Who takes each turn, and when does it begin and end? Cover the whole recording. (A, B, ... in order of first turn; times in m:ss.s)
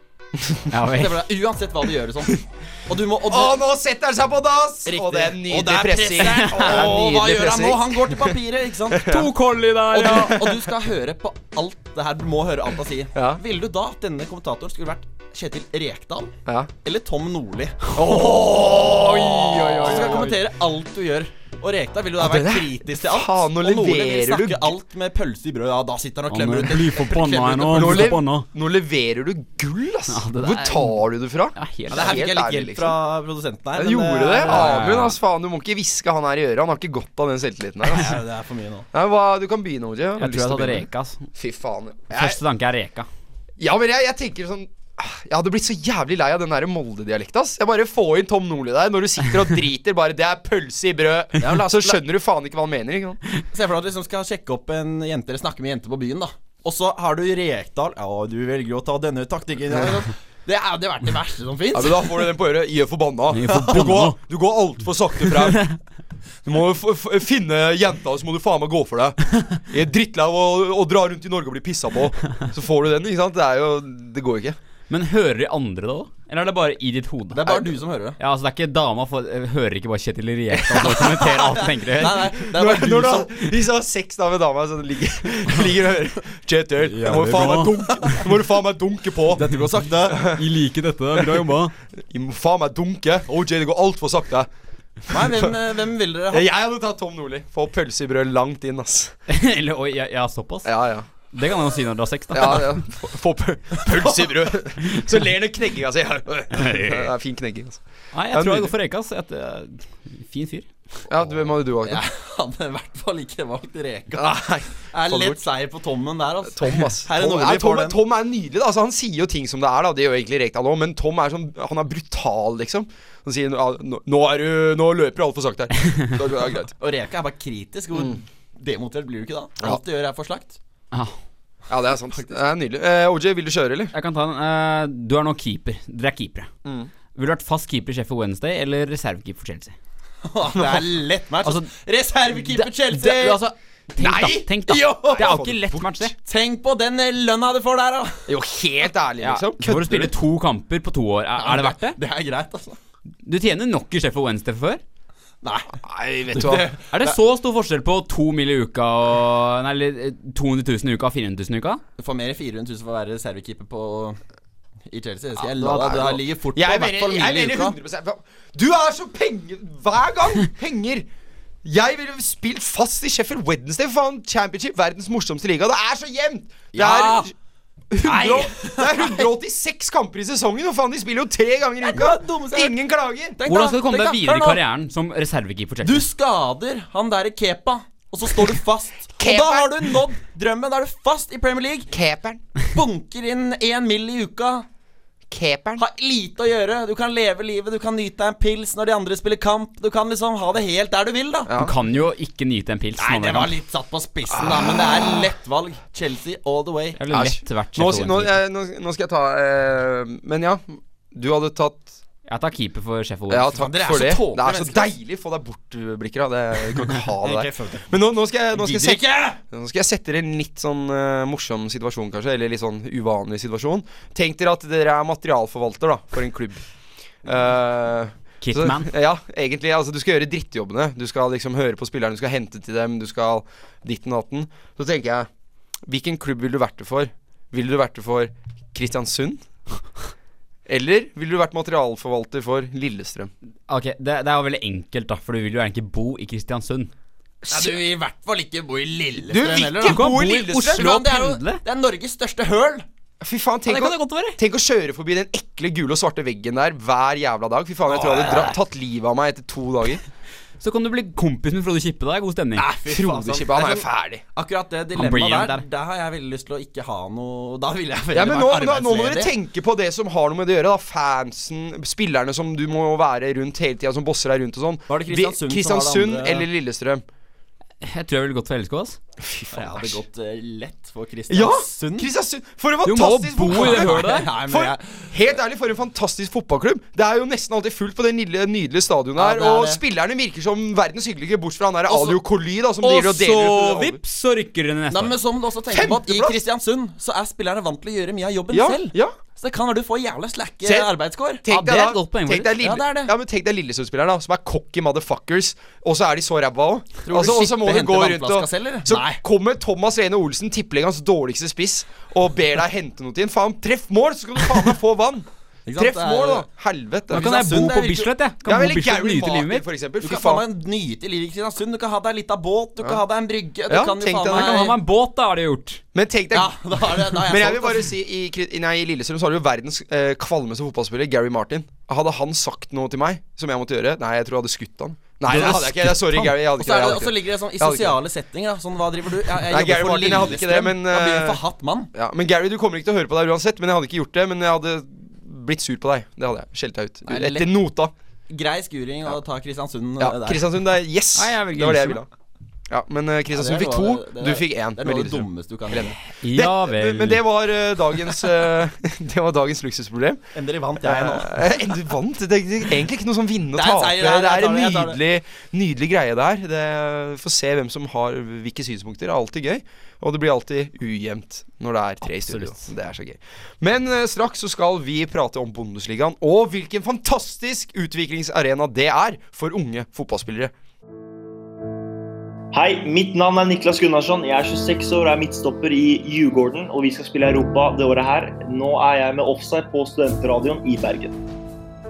0:00.7-0:01.1 A
0:00.9-0:03.6 B
0:03.3-0:08.3 C
0:04.9-0:09.1 B
0:06.2-0:07.2 A
0:08.9-0:09.3 C
0:09.1-0:10.4 A
0:09.9-0:18.1 B
0:09.9-0:10.6 C
0:13.2-0:13.4 C
0:16.5-0:16.7 C
0:18.0-0:20.4 C
0:18.9-0:20.4 A
0:19.8-0:28.2 B
0:22.2-0:24.8 C
0:26.3-0:28.5 A
0:27.7-0:33.0 C
0:30.1-0:31.0 A
0:31.6-0:32.2 A
0:31.9-0:34.9 B
0:33.8-0:38.2 C
0:34.5-0:35.2 A
0:37.9-0:38.9 B
0:38.9-0:42.4 C
0:40.2-0:41.3 A
0:42.1-0:43.1 A
0:43.6-0:53.2 C
0:51.4-0:52.0 B
0:53.5-1:02.3 B
1:01.7-1:05.6 C
1:03.3-1:04.2 A
1:06.4-1:14.6 C
1:14.9-1:17.6 A
1:17.3-1:18.2 B
1:18.2-1:22.5 A
1:20.8-1:23.3 B
1:22.5-1:29.4 C
1:26.8-1:28.2 A
1:29.3-1:30.3 B
1:30.1-1:30.4 C
1:30.2-1:31.7 A
1:31.2-1:34.5 C
1:35.1-1:35.5 C
1:35.1-1:36.5 B
1:36.3-1:39.2 C
1:39.3-1:40.7 A
1:40.6-1:41.1 C
1:41.3-1:42.8 A
1:42.3-1:47.8 C
1:46.5-1:47.1 A
1:48.1-1:50.7 A
1:48.3-1:48.7 C
1:51.1-1:52.0 C
1:51.8-1:58.0 B
1:54.1-1:55.4 C
1:56.5-2:06.7 C
2:06.8-2:10.6 B
2:11.7-2:13.9 C
2:13.9-2:16.5 A
2:16.6-2:16.9 C
2:17.2-2:19.8 A
2:20.2-2:23.4 B
2:20.6-2:20.9 C
2:21.4-2:21.7 A
2:22.5-2:26.2 A
2:24.0-2:24.5 C
2:24.7-2:25.4 B
2:25.0-2:26.1 C
2:26.2-2:28.3 B
2:28.3-2:30.1 C
2:29.2-2:32.0 A
2:31.4-2:32.8 B
2:33.2-2:34.8 A
2:35.4-2:35.8 B
2:35.8-2:36.7 C
2:36.3-2:37.2 B
2:36.4-2:41.8 A
2:42.0-2:44.2 B
2:44.9-2:47.8 B
2:45.6-2:46.2 A
2:46.5-2:51.1 C
2:51.6-2:57.3 C
2:56.7-2:57.3 B
2:57.9-3:03.4 C
2:58.0-2:59.3 B
3:01.8-3:02.8 B
3:03.3-3:04.6 B
3:03.5-3:06.0 A
3:05.8-3:11.9 B
3:09.2-3:10.0 C
3:11.9-3:12.4 C
3:12.7-3:14.7 B
3:15.3-3:15.8 C
3:15.8-3:21.5 B
3:21.5-3:21.7 C
3:21.6-3:23.5 A
3:23.0-3:27.0 B
3:27.0-3:28.4 A
3:27.1-3:31.9 C
3:32.3-3:33.6 A
3:33.3-3:46.6 C
3:33.6-3:34.9 B
3:37.2-3:37.9 B
3:38.5-3:39.4 B
3:47.2-3:55.3 C
3:48.4-3:48.9 A
3:55.9-3:59.4 C
4:00.7-4:03.3 C
4:03.7-4:06.9 A
4:07.4-4:07.8 C
4:07.5-4:12.9 B
4:09.2-4:10.9 C
4:09.8-4:11.6 A
4:13.2-4:20.0 C
4:13.7-4:14.4 A
4:17.9-4:18.6 B
4:20.6-4:22.7 A
4:22.6-4:29.3 B
4:22.9-4:24.2 C
4:25.0-4:25.6 A
4:28.1-4:37.0 C
4:34.9-4:36.5 B
4:37.8-4:39.0 A
4:39.2-4:40.0 C
4:39.5-4:42.1 B
4:41.3-4:54.0 C
4:42.8-4:44.3 A
4:43.5-4:45.2 B
4:49.2-4:49.8 B
4:52.8-4:55.2 A
4:54.9-5:01.4 B
4:55.7-4:56.4 C
4:58.5-4:59.2 C
5:00.6-5:00.9 C
5:01.4-5:17.3 C
5:01.5-5:02.5 A
5:02.6-5:03.1 B
5:07.1-5:09.2 B
5:15.7-5:16.5 B
5:17.1-5:18.1 B
5:17.1-5:19.7 A
5:18.4-5:20.4 C
5:20.0-5:24.8 B
5:23.7-5:24.7 C
5:24.3-5:25.8 A
5:26.0-5:38.0 C
5:26.3-5:27.9 B
5:35.3-5:36.3 A
5:36.6-5:41.9 B
5:39.5-5:41.4 C
5:41.9-5:47.9 C
5:47.1-5:47.6 B
5:48.3-5:50.5 B
5:50.0-5:52.1 C
5:51.2-5:52.0 A
5:52.7-6:00.2 C
5:53.3-5:56.0 B
5:56.2-5:57.2 A
6:00.3-6:01.8 B
6:00.8-6:20.5 C
6:03.6-6:05.0 B
6:12.0-6:12.7 A
6:22.5-6:31.2 D